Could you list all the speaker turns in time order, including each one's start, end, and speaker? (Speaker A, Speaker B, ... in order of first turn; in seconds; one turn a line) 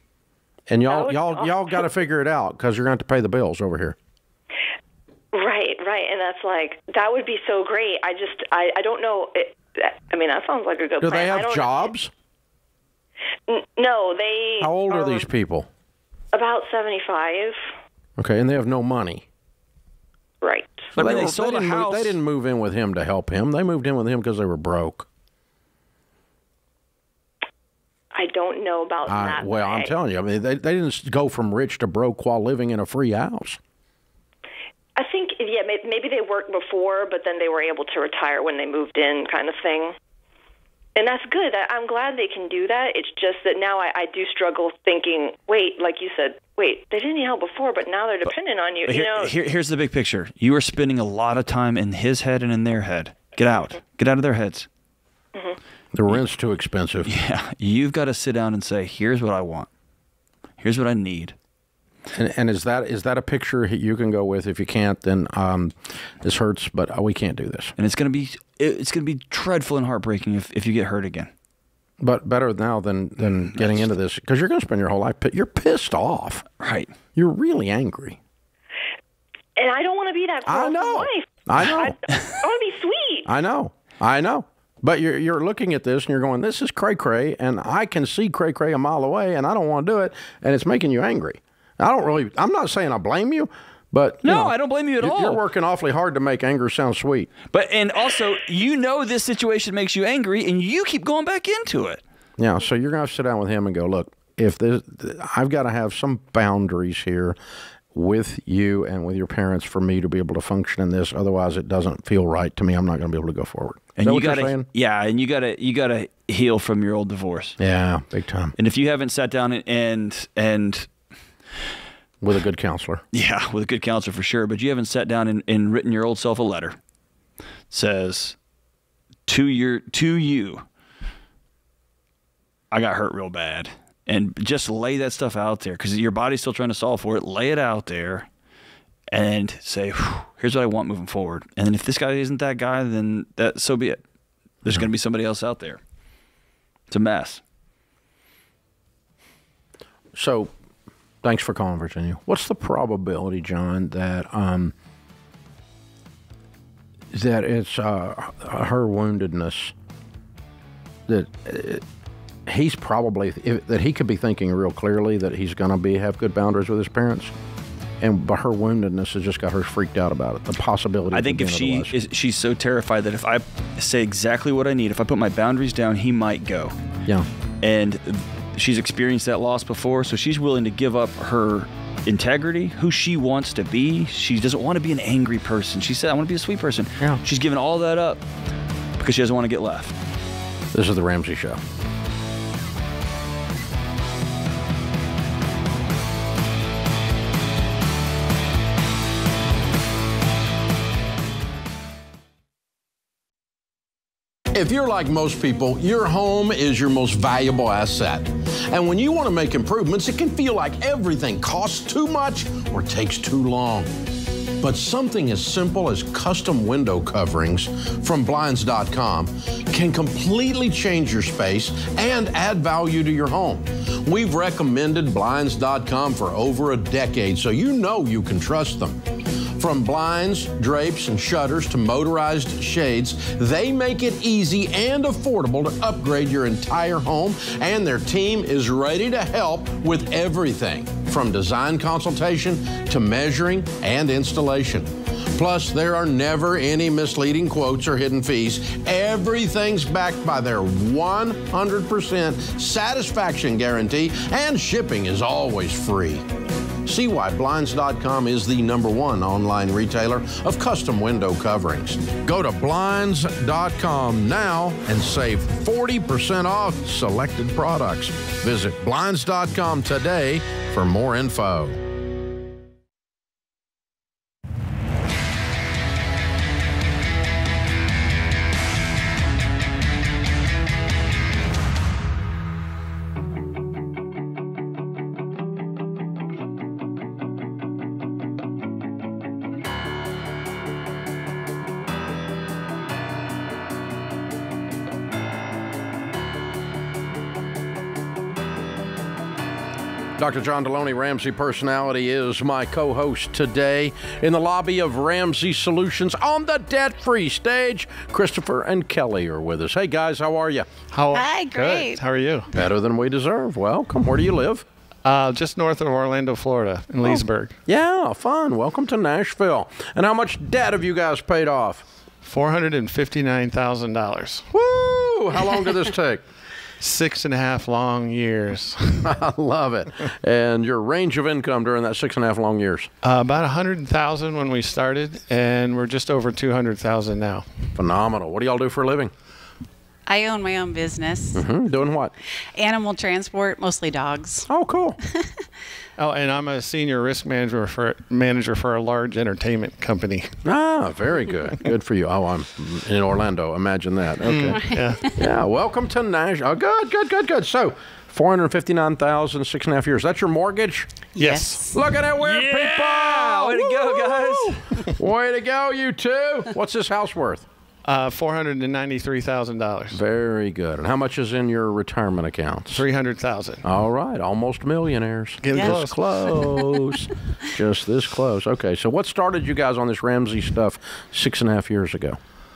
Speaker A: 0.7-4.0
Speaker B: 0.9-1.8
Speaker B: 5.3-11.9
Speaker A: 11.0-12.1
Speaker B: 13.5-15.3
Speaker A: 14.6-15.7
Speaker B: 16.3-17.6
Speaker A: 18.2-19.2
Speaker B: 20.4-20.9
Speaker C: 20.9-22.2
Speaker A: 20.9-25.1
Speaker B: 28.1-29.9
Speaker A: 29.1-33.6
Speaker B: 35.0-40.0
Speaker B: 41.0-49.3
Speaker C: 48.8-54.7
Speaker A: 55.9-57.1
Speaker C: 57.0-59.7
Speaker C: 60.6-61.3
Speaker A: 62.1-67.7
Speaker C: 67.8-71.3
Speaker A: 72.0-76.4
Speaker C: 73.6-73.9
Speaker C: 76.6-76.9
Speaker A: 77.1-78.2
Speaker B: 79.5-83.3
Speaker A: 80.5-82.0
Speaker A: 83.2-97.3
Speaker C: 94.2-95.4
Speaker C: 97.5-102.0
Speaker A: 102.4-107.4
Speaker A: 107.9-114.7
Speaker C: 114.0-117.6
Speaker A: 117.6-118.5
Speaker C: 118.6-120.9
Speaker A: 122.2-123.0
Speaker C: 123.1-126.8
Speaker C: 127.7-128.3
Speaker C: 129.2-130.7
Speaker C: 132.7-138.3
Speaker C: 139.1-144.0
Speaker C: 144.6-145.8
Speaker C: 146.9-147.4
Speaker A: 150.1-150.5
Speaker A: 151.2-154.7
Speaker A: 157.1-159.7
Speaker A: 161.1-161.8
Speaker A: 162.4-167.3
Speaker A: 168.0-172.0
Speaker C: 171.1-176.8
Speaker C: 177.6-188.2
Speaker C: 189.0-189.9
Speaker A: 190.7-191.6
Speaker A: 204.5-213.9
Speaker A: 214.6-256.2
Speaker A: 256.8-271.8
Speaker A: 300.2-310.7
Speaker D: 310.9-312.5
Speaker E: 311.1-312.0
Speaker A: 312.5-314.6
Speaker D: 315.0-317.6
Speaker A: 317.0-321.8
Speaker D: 322.2-324.4
Speaker A: 324.5-326.2
Speaker D: 326.8-329.1
Speaker A: 329.0-332.9
Speaker D: 333.0-337.7
Speaker A: 337.7-339.1
Speaker E: 340.1-341.4
Speaker A: 341.3-342.1
Speaker E: 342.5-344.5
Speaker A: 344.5-345.0
Speaker D: 346.0-350.4
Speaker A: 350.4-360.9
Speaker D: 354.2-355.1
Speaker E: 354.5-355.1
Speaker D: 361.1-361.8
Speaker E: 361.2-361.7
Speaker A: 361.7-367.5
Speaker C: 362.2-364.7
Speaker D: 367.8-370.0
Speaker A: 369.9-372.8
Speaker D: 372.7-373.6
Speaker A: 373.6-382.2
Speaker D: 375.4-376.8